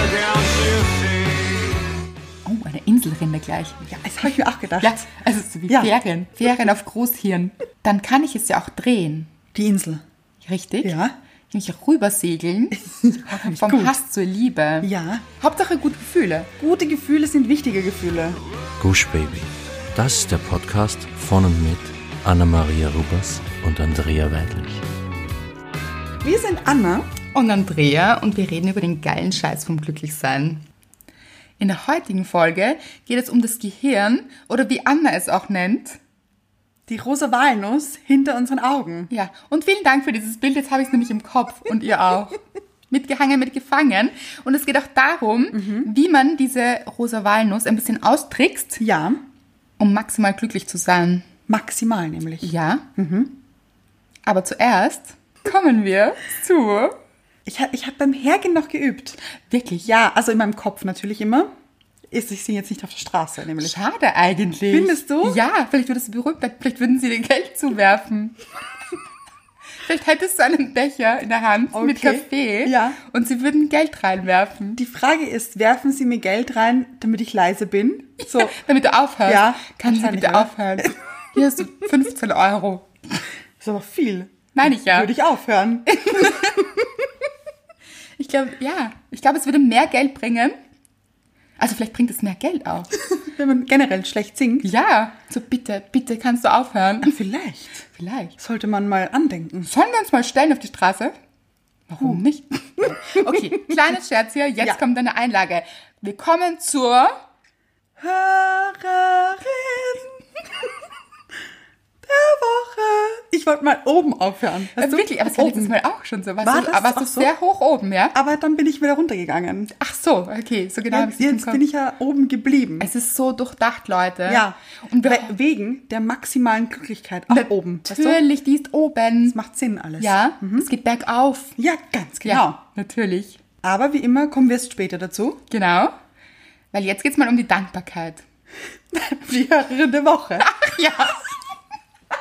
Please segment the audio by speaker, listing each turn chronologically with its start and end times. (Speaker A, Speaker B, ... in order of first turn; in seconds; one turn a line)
Speaker A: 2.5-9.3
Speaker B: 3.8-5.1
Speaker B: 5.7-6.0
Speaker B: 9.5-10.0
Speaker A: 10.4-11.0
Speaker B: 10.8-11.1
Speaker A: 11.5-16.5
Speaker B: 12.8-14.0
Speaker B: 14.8-15.3
Speaker B: 16.6-18.4
Speaker C: 18.8-24.8
Speaker B: 26.2-27.1
Speaker A: 27.3-30.6
Speaker A: 31.6-36.0
Speaker B: 36.9-39.1
Speaker A: 39.1-48.8
Speaker B: 45.5-45.9
Speaker B: 48.8-49.2
Speaker A: 49.8-51.3
Speaker B: 51.5-53.4
Speaker A: 52.4-52.9
Speaker A: 54.3-57.0
Speaker B: 57.5-59.2
Speaker A: 59.5-59.9
Speaker B: 59.9-61.5
Speaker B: 62.1-63.8
Speaker A: 63.6-68.4
Speaker B: 64.7-65.4
Speaker A: 69.8-74.8
Speaker B: 71.7-73.0
Speaker B: 74.8-78.6
Speaker A: 78.2-82.9
Speaker B: 79.3-80.9
Speaker B: 83.6-86.7
Speaker A: 84.5-85.1
Speaker A: 85.9-86.7
Speaker A: 88.2-90.5
Speaker A: 91.6-92.9
Speaker B: 93.0-94.7
Speaker A: 94.6-97.1
Speaker B: 97.0-97.8
Speaker A: 97.9-98.4
Speaker B: 98.4-99.7
Speaker A: 99.6-101.1
Speaker A: 101.9-107.2
Speaker B: 102.8-103.8
Speaker B: 108.0-110.7
Speaker B: 112.0-115.8
Speaker A: 114.8-118.2
Speaker B: 116.4-117.3
Speaker B: 118.1-119.7
Speaker A: 119.8-121.6
Speaker B: 120.9-122.9
Speaker A: 122.8-125.3
Speaker B: 124.3-128.2
Speaker A: 127.3-129.4
Speaker B: 129.3-130.7
Speaker A: 130.0-131.6
Speaker B: 131.6-132.6
Speaker A: 132.2-133.4
Speaker B: 133.6-135.4
Speaker A: 135.5-135.9
Speaker A: 136.7-138.2
Speaker B: 138.9-140.5
Speaker A: 140.4-141.3